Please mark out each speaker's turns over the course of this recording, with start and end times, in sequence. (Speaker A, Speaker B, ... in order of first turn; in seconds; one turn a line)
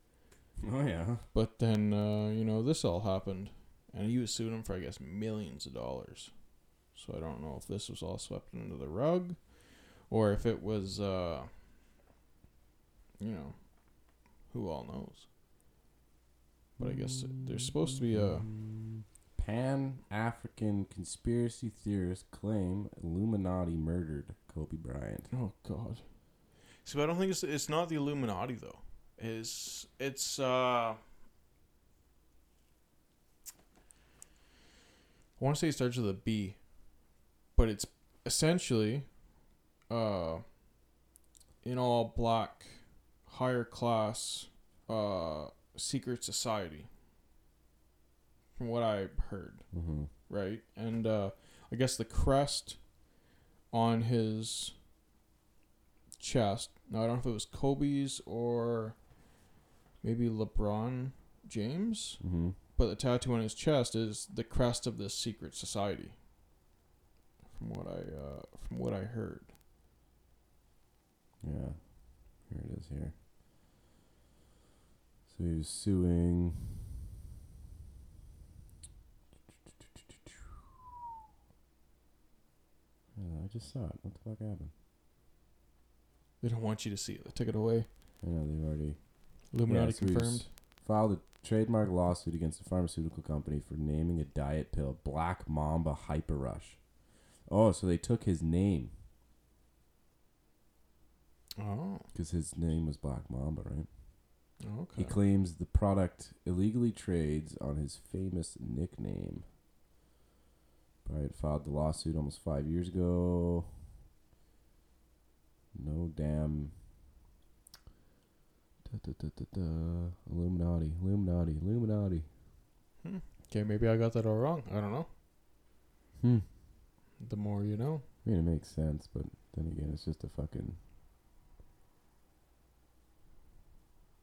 Speaker A: 0.6-1.2
Speaker B: 1.3-6.3
Speaker B: 6.9-9.4
Speaker B: 10.1-11.5
Speaker B: 13.2-13.6
Speaker B: 14.5-15.2
Speaker A: 16.8-25.3
Speaker B: 16.8-18.5
Speaker B: 25.3-26.0
Speaker B: 26.8-31.0
Speaker B: 35.4-36.6
Speaker B: 37.5-39.1
Speaker B: 39.9-40.4
Speaker B: 41.6-42.8
Speaker B: 43.3-46.9
Speaker B: 48.5-49.6
Speaker A: 49.7-50.1
Speaker B: 50.3-52.8
Speaker B: 53.7-54.8
Speaker B: 56.2-59.0
Speaker B: 60.0-62.2
Speaker A: 62.2-62.5
Speaker B: 62.8-66.1
Speaker B: 67.5-69.5
Speaker A: 71.4-71.8
Speaker A: 72.5-73.1
Speaker A: 75.3-76.8
Speaker A: 79.9-80.4
Speaker A: 83.1-84.7
Speaker B: 86.4-87.9
Speaker A: 88.2-89.0
Speaker B: 89.5-90.5
Speaker A: 89.6-96.8
Speaker A: 97.5-98.9
Speaker B: 101.6-102.0
Speaker A: 102.1-103.9
Speaker B: 104.6-105.2
Speaker A: 105.0-109.4
Speaker A: 111.0-113.7
Speaker A: 115.7-116.7
Speaker A: 118.8-122.3
Speaker B: 123.0-125.1
Speaker A: 126.2-126.5
Speaker B: 127.2-128.0
Speaker A: 128.2-130.8